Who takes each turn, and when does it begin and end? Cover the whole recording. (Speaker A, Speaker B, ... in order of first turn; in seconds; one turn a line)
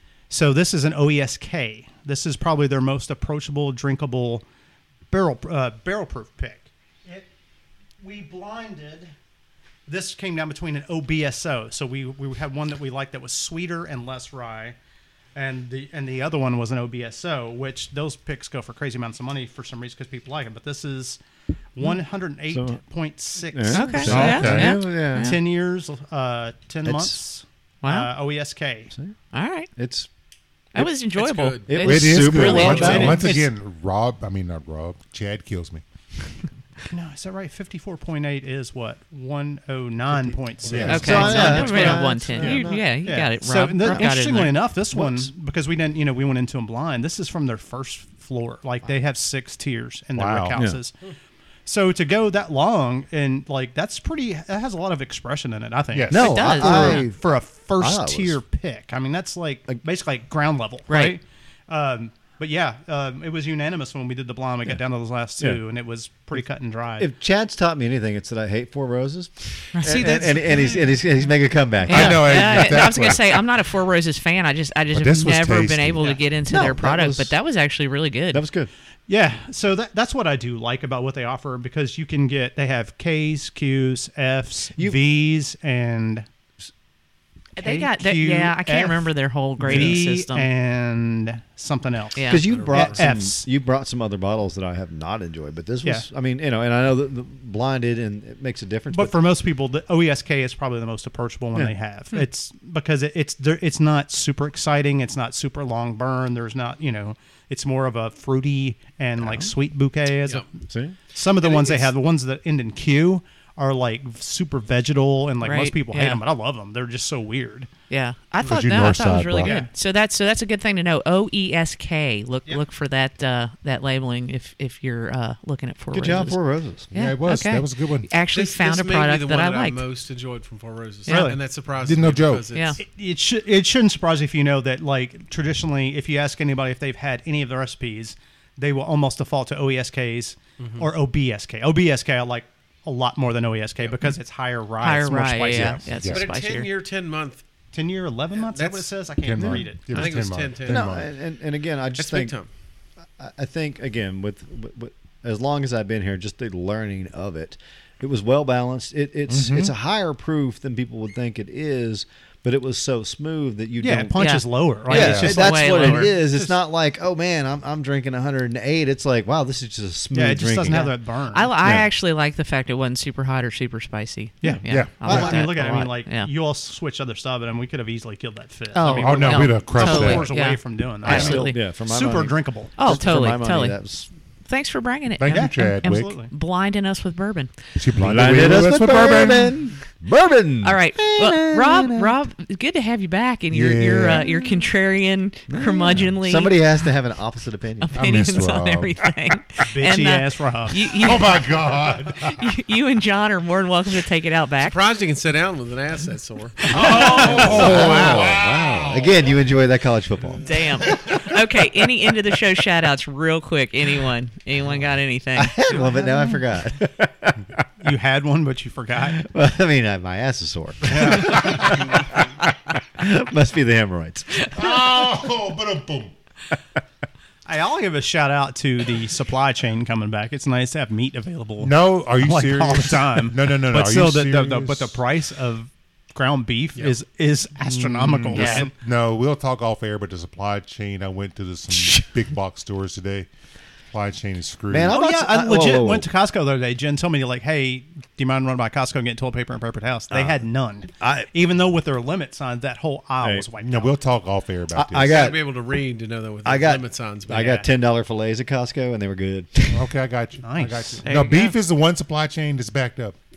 Speaker A: 0.3-4.4
Speaker A: 5.1-7.3
Speaker A: 8.0-9.1
Speaker A: 9.9-14.8
Speaker A: 15.3-21.2
Speaker A: 21.7-28.9
Speaker B: 22.5-22.8
Speaker B: 23.5-25.3
Speaker C: 23.7-25.4
Speaker D: 24.0-24.8
Speaker B: 26.9-27.1
Speaker C: 27.8-28.1
Speaker C: 29.3-29.7
Speaker B: 29.8-30.1
Speaker C: 30.7-33.4
Speaker E: 31.1-31.8
Speaker B: 31.7-33.3
Speaker D: 31.8-35.8
Speaker A: 32.3-33.4
Speaker A: 36.9-50.9
Speaker B: 40.6-42.8
Speaker D: 40.6-41.6
Speaker C: 40.8-44.7
Speaker B: 43.8-44.1
Speaker B: 44.9-45.2
Speaker D: 50.1-50.6
Speaker B: 50.5-50.8
Speaker A: 51.6-67.1
Speaker D: 55.9-56.9
Speaker B: 56.1-58.4
Speaker C: 56.1-57.1
Speaker C: 60.9-61.2
Speaker B: 67.0-72.9
Speaker C: 69.7-70.2
Speaker E: 69.8-71.0
Speaker D: 71.9-73.5
Speaker C: 71.9-78.4
Speaker D: 74.9-76.0
Speaker B: 76.5-77.3
Speaker B: 78.3-78.7
Speaker A: 79.1-86.2
Speaker C: 87.5-90.5
Speaker A: 87.6-93.5
Speaker B: 89.7-90.0
Speaker C: 92.1-92.4
Speaker B: 92.3-99.2
Speaker E: 92.3-93.0
Speaker A: 98.9-117.7
Speaker B: 109.2-109.5
Speaker B: 110.7-111.0
Speaker E: 111.4-111.9
Speaker C: 115.4-116.2
Speaker C: 117.9-126.4
Speaker D: 118.4-119.5
Speaker A: 119.4-119.7
Speaker B: 125.9-126.9
Speaker D: 126.9-128.1
Speaker C: 126.9-129.8
Speaker E: 128.3-132.8
Speaker C: 131.1-131.3
Speaker A: 131.1-131.4
Speaker D: 131.8-132.5
Speaker A: 132.8-145.8
Speaker E: 140.6-140.9
Speaker C: 144.8-146.7
Speaker D: 145.9-146.2
Speaker E: 146.0-147.4
Speaker A: 147.7-150.1
Speaker E: 148.5-148.9
Speaker D: 149.2-151.1
Speaker B: 149.4-149.6
Speaker E: 149.9-150.9
Speaker B: 150.7-152.3
Speaker E: 152.0-152.5
Speaker B: 153.2-170.9
Speaker D: 159.3-159.7
Speaker A: 163.8-166.6
Speaker C: 164.2-166.2
Speaker D: 164.9-165.4
Speaker A: 170.1-171.5
Speaker C: 170.7-176.3
Speaker B: 171.6-171.9
Speaker A: 174.4-183.0
Speaker B: 174.5-175.5
Speaker D: 174.7-175.0
Speaker C: 178.7-181.5
Speaker D: 179.0-180.3
Speaker B: 181.0-184.1
Speaker C: 182.8-183.8
Speaker C: 184.5-187.5
Speaker D: 185.2-186.2
Speaker A: 185.3-186.3
Speaker D: 187.8-189.5
Speaker B: 188.0-192.1
Speaker C: 188.7-189.5
Speaker C: 190.6-196.5
Speaker D: 193.5-194.3
Speaker B: 194.2-194.6
Speaker B: 195.5-198.0
Speaker C: 197.8-204.8
Speaker D: 197.9-199.1
Speaker A: 199.7-201.0
Speaker D: 201.0-202.5
Speaker E: 204.6-208.1
Speaker C: 206.7-208.0
Speaker D: 206.7-209.4
Speaker B: 206.7-211.2
Speaker D: 210.2-211.2
Speaker C: 210.4-216.4
Speaker B: 215.3-217.6
Speaker A: 217.8-219.2
Speaker B: 219.1-224.5
Speaker A: 220.9-221.3
Speaker D: 221.0-222.1
Speaker D: 224.5-226.1
Speaker A: 227.4-238.7
Speaker D: 231.6-235.0
Speaker D: 237.6-243.3
Speaker C: 238.3-238.7
Speaker D: 243.9-245.0
Speaker B: 244.7-246.1
Speaker A: 244.9-253.9
Speaker B: 250.1-250.4
Speaker B: 251.0-251.3
Speaker B: 253.2-253.5
Speaker D: 253.6-255.2
Speaker B: 254.7-255.4
Speaker E: 255.0-257.6
Speaker B: 256.4-259.8
Speaker A: 257.3-257.6
Speaker D: 259.7-263.1
Speaker A: 260.4-261.1
Speaker C: 261.0-261.5